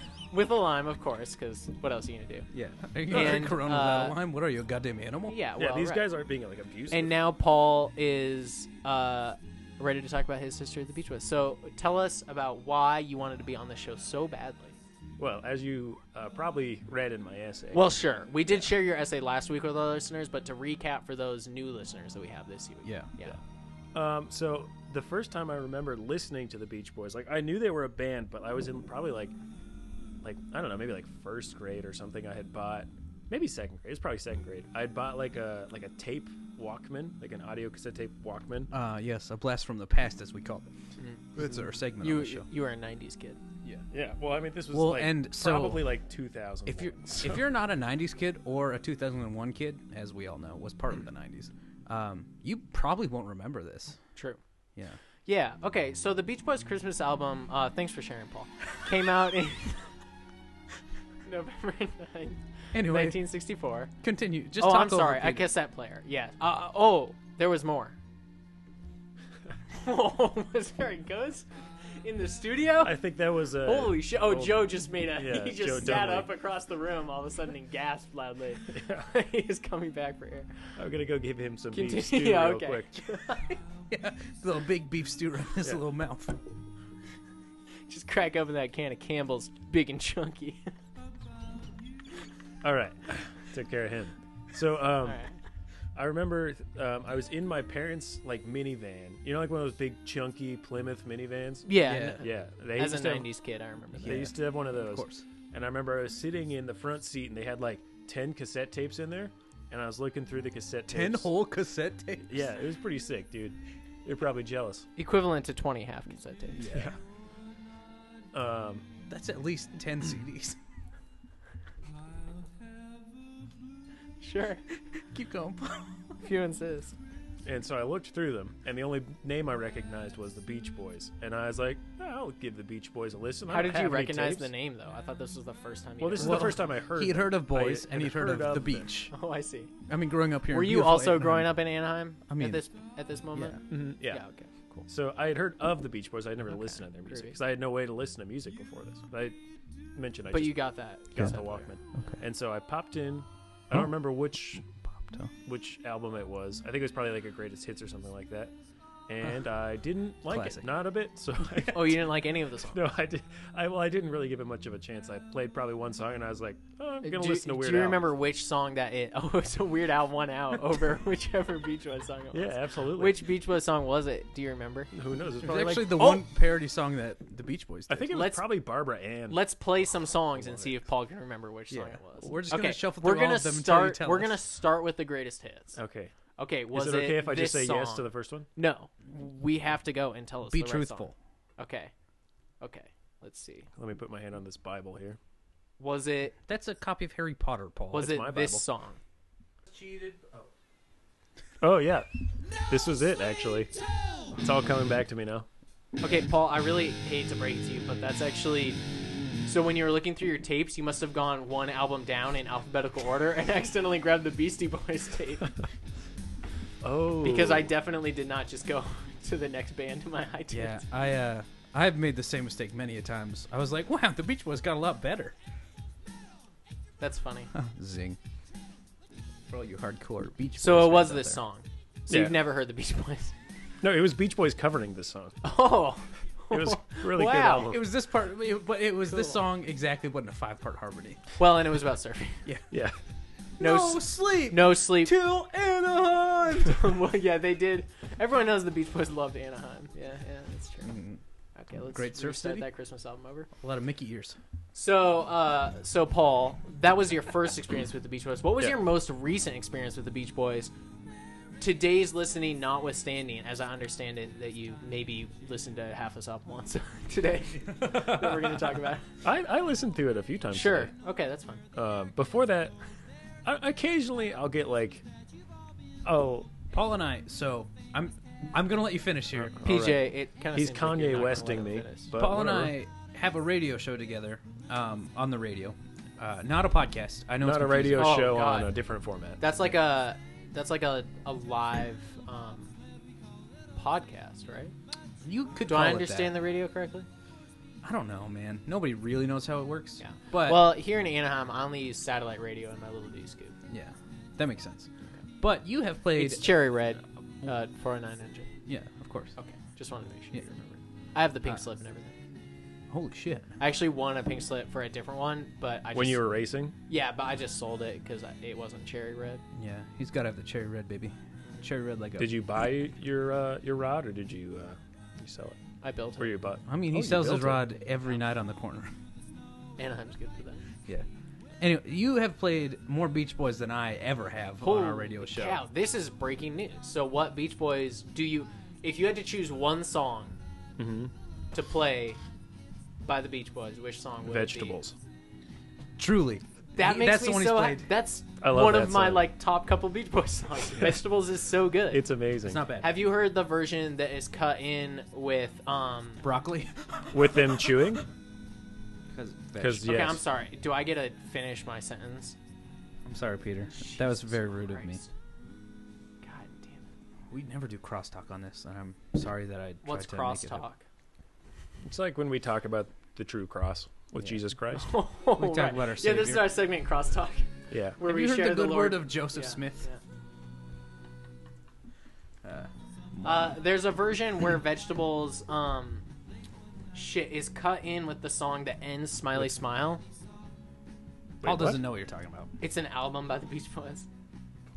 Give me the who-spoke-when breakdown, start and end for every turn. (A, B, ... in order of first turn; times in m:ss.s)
0:00.3-0:02.5 A
0:02.5-0:05.4 B
0:03.1-0:04.2 A
0:03.1-0:03.5 C
0:05.3-0:06.0 A
0:05.6-0:07.1 C
0:06.9-0:14.7 A
0:15.2-0:17.9 C
0:17.7-0:23.4 A
0:22.8-0:23.1 B
0:23.9-0:29.3 C
0:30.2-0:38.7 C
0:38.7-0:40.7 B
0:41.0-0:43.4 A
0:41.4-0:42.5 B
0:43.9-0:47.4 C
0:44.7-0:45.9 B
0:46.6-0:54.0 B
0:55.2-0:59.9 A
1:01.2-1:03.9 A
1:02.7-1:03.2 B
1:04.0-1:05.5 B
1:04.6-1:08.0 A
1:09.7-1:11.5 A
1:12.0-1:13.0 A
1:12.8-1:16.3 C
1:13.6-1:20.5 A
1:18.7-1:19.1 C
1:20.8-1:23.0 C
1:21.7-1:23.6 A
1:23.9-1:26.4 B
1:27.9-1:30.7 A
1:32.6-1:35.2 C
1:35.0-1:35.4 A
1:35.9-1:43.3 C
1:41.6-1:44.3 A
1:41.8-1:42.2 B
1:44.0-1:45.2 B
1:44.0-1:51.3 C
1:50.9-1:52.5 B
1:52.3-1:54.9 C
1:55.0-1:56.7 A
1:56.6-1:57.0 B
1:58.3-1:58.8 C
1:59.1-2:00.6 B
2:04.2-2:04.6 A
2:05.0-2:06.2 B
2:06.2-2:07.0 A
2:07.4-2:14.5 C
2:13.5-2:16.6 A
2:16.0-2:18.9 C
2:16.2-2:19.1 B
2:19.1-2:19.7 A
2:19.9-2:21.5 B
2:20.5-2:24.8 A
2:22.3-2:22.6 B
2:23.3-2:23.6 B
2:23.7-2:24.2 C
2:24.9-2:29.4 C
2:26.6-2:27.3 A
2:29.9-2:34.6 C
2:30.3-2:31.6 A
2:31.9-2:32.2 B
2:34.5-2:35.3 B
2:35.4-2:38.5 C
2:39.1-2:42.1 C
2:40.3-2:40.7 B
2:41.6-2:42.8 A
2:42.7-2:48.1 C
2:47.0-2:54.9 A
2:52.3-2:53.2 C
2:54.9-2:56.2 C
2:55.4-2:58.1 B
2:57.9-3:00.8 C
2:58.1-2:58.5 A
2:59.3-3:05.8 A
3:01.7-3:04.4 B
3:05.8-3:06.1 C
3:06.4-3:11.9 A
3:06.7-3:08.5 C
3:10.5-3:11.1 B
3:12.6-3:13.7 A
3:13.8-3:15.2 C
3:15.8-3:16.4 A
3:16.5-3:18.2 B
3:17.9-3:19.0 A
3:18.0-3:18.6 C
3:19.7-3:20.5 B
3:21.6-3:22.1 C
3:22.6-3:23.7 C
3:24.4-3:25.5 C
3:26.0-3:28.8 A
3:29.4-3:35.5 A
3:36.8-3:37.7 C
3:37.2-3:40.8 A
3:40.5-3:45.3 B
3:47.0-3:47.5 A
3:47.5-3:48.2 B
3:49.5-3:51.4 B
3:50.6-3:53.3 A
3:52.1-3:52.4 C
3:53.8-3:55.4 C
3:55.4-3:57.7 A
3:56.5-3:57.8 C
3:57.6-4:01.2 B
3:59.1-3:59.4 A
4:01.4-4:02.4 A
4:02.7-4:03.0 C
4:03.6-4:06.8 B
4:03.6-4:05.2 A
4:06.6-4:10.9 A
4:10.8-4:11.2 B
4:11.5-4:13.5 A
4:11.9-4:12.7 B
4:13.6-4:14.4 B
4:14.7-4:20.7 A
4:21.6-4:29.1 A
4:27.6-4:28.7 B
4:29.2-4:30.9 C
4:30.5-4:31.6 A
4:31.7-4:32.7 C
4:33.4-4:35.0 C
4:36.0-4:36.5 C
4:36.7-4:39.6 B
4:39.4-4:42.7 C
4:39.6-4:42.1 A
4:42.2-4:48.2 B
4:47.4-4:49.4 C
4:48.0-4:48.7 A
4:49.4-4:52.7 A
4:53.7-4:54.7 A
4:55.2-4:56.4 B
4:55.6-4:57.1 A
4:57.8-5:00.7 B
5:00.0-5:03.6 A
5:03.7-5:04.9 B
5:05.4-5:06.5 B
5:06.1-5:08.5 A
5:08.7-5:09.4 B
5:09.4-5:12.1 A
5:12.9-5:13.5 B
5:13.6-5:16.2 A
5:15.9-5:16.7 C
5:16.9-5:19.4 A
5:19.5-5:22.4 B
5:22.2-5:25.6 C
5:25.8-5:26.3 A
5:26.2-5:27.7 C
5:26.7-5:28.9 B
5:29.8-5:30.6 A
5:31.6-5:35.6 B
5:34.6-5:40.4 A
5:40.8-5:41.1 C
5:41.5-5:42.2 A
5:43.0-5:44.8 A
5:44.2-5:44.9 C
5:46.0-5:47.9 B
5:46.8-5:52.0 A
5:48.4-5:49.3 C
5:51.9-5:52.6 C
5:52.4-5:53.0 B
5:52.8-5:56.2 A
5:56.2-5:57.9 B
5:57.1-5:58.0 C
5:59.1-6:00.2 B
5:59.6-6:00.2 C
5:59.8-6:02.4 A
6:03.0-6:05.0 B
6:03.7-6:05.1 A
6:06.2-6:06.8 A
6:07.3-6:10.6 B
6:09.8-6:10.8 A
6:11.8-6:14.9 C
6:14.7-6:20.0 A
6:15.4-6:16.6 B
6:17.7-6:18.0 C
6:18.0-6:19.8 B
6:22.4-6:23.6 B
6:23.2-6:26.0 A
6:26.9-6:30.0 A
6:31.4-6:31.8 C
6:31.4-6:32.5 B
6:32.6-6:34.1 A